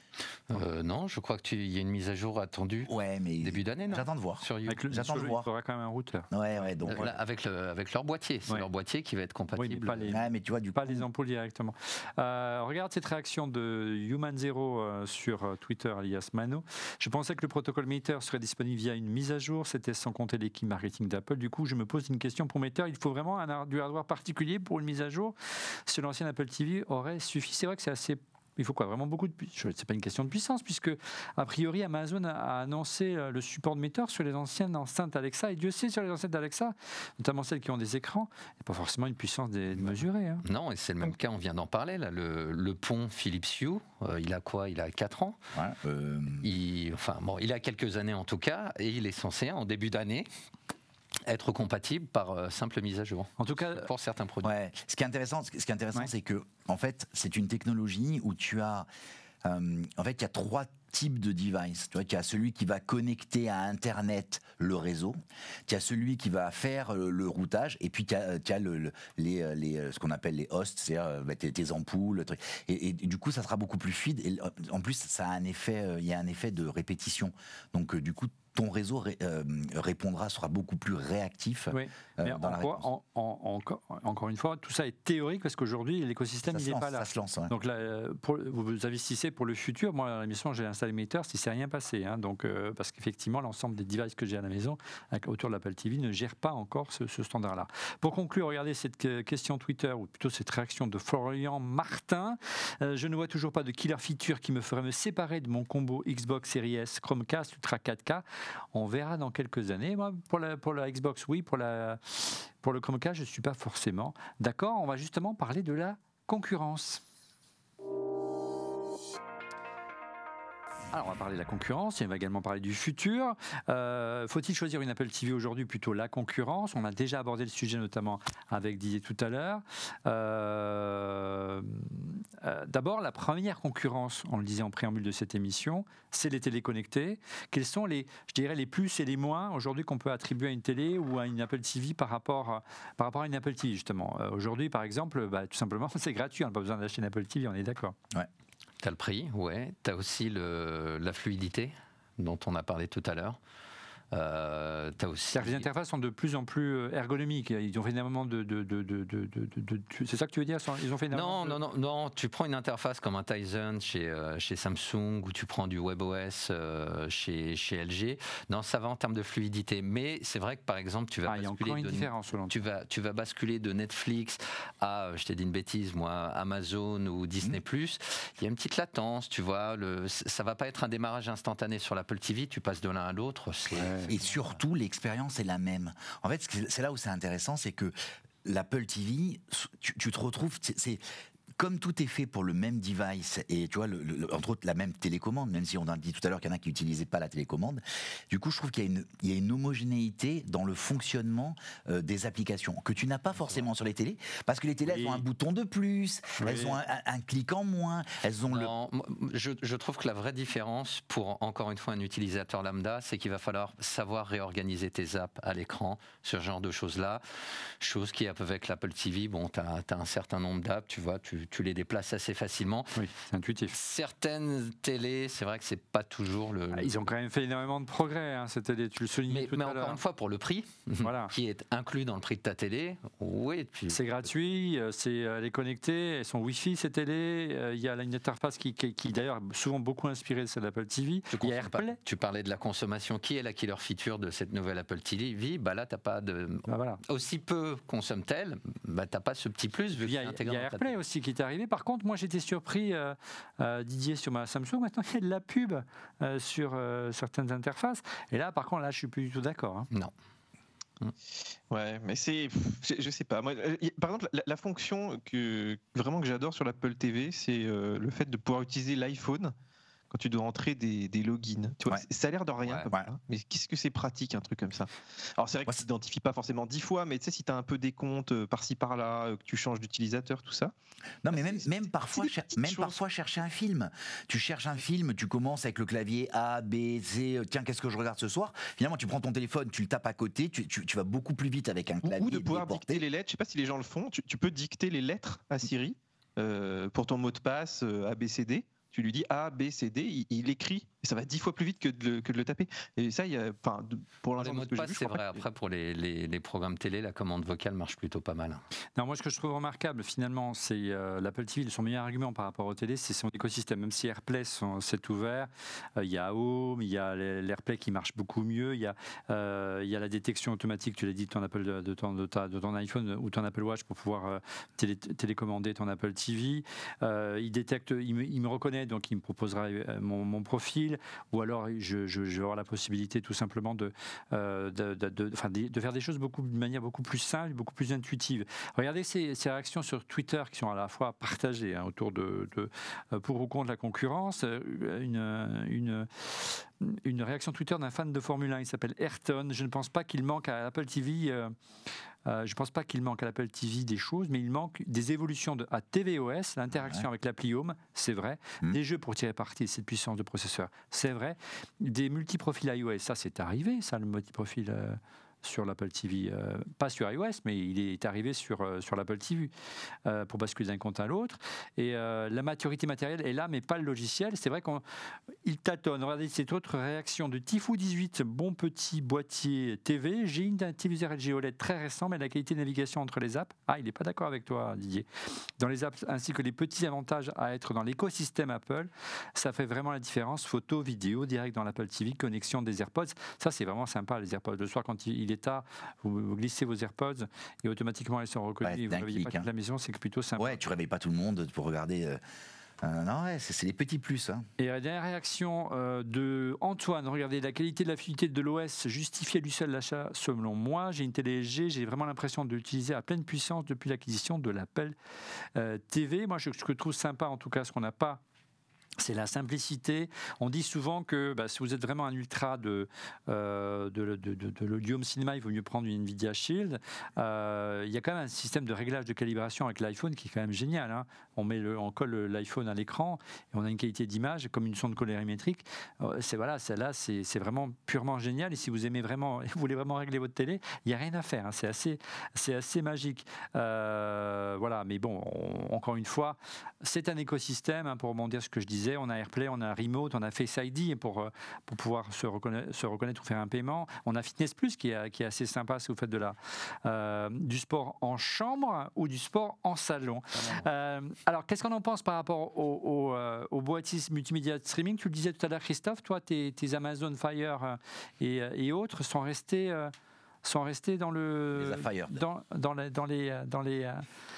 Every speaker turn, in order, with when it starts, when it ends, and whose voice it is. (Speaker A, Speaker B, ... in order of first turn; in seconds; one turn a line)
Speaker A: 0.5-5.0
Speaker B: 2.9-5.5
Speaker C: 4.7-7.0
Speaker B: 6.3-7.2
Speaker A: 6.9-10.1
Speaker C: 9.6-25.4
Speaker B: 10.1-11.1
Speaker C: 25.9-40.5
Speaker A: 40.4-45.4
Speaker B: 45.5-46.5
Speaker A: 46.4-50.3
Speaker A: 51.3-54.5
Speaker C: 53.4-53.9
Speaker B: 54.4-58.9
Speaker B: 59.4-82.9
Speaker C: 81.7-117.0
Speaker B: 86.5-87.5
Speaker C: 120.9-148.0
Speaker A: 148.8-153.4
Speaker A: 154.1-155.7
Speaker C: 155.3-161.6
Speaker A: 161.1-184.4
Speaker C: 171.3-172.5
Speaker C: 183.8-184.1
Speaker B: 184.0-187.9
Speaker B: 188.4-191.0
Speaker B: 191.6-208.7
Speaker C: 204.9-205.2
Speaker C: 206.4-206.8
Speaker A: 208.5-223.0
Speaker C: 223.0-223.8
Speaker A: 223.7-227.1
Speaker C: 226.7-230.0
Speaker A: 229.3-234.1
Speaker C: 231.0-231.3
Speaker C: 233.9-242.0
Speaker A: 241.3-251.0
Speaker C: 246.7-247.0
Speaker C: 250.0-259.9
Speaker D: 261.7-269.5
Speaker D: 270.1-280.7
Speaker B: 281.2-293.0
Speaker D: 281.3-283.0
Speaker D: 292.0-305.4
Speaker A: 304.4-308.6
Speaker C: 309.0-351.6
Speaker C: 352.3-369.5
Speaker B: 356.7-357.1
Speaker C: 370.1-374.8
Speaker C: 375.4-385.1
Speaker C: 385.6-400.6
Speaker B: 398.6-399.5
Speaker B: 400.4-402.2
Speaker B: 402.8-404.5
Speaker C: 404.6-415.0
Speaker C: 415.6-418.2
Speaker C: 419.0-469.9
Speaker C: 470.4-474.1
Speaker B: 471.6-472.2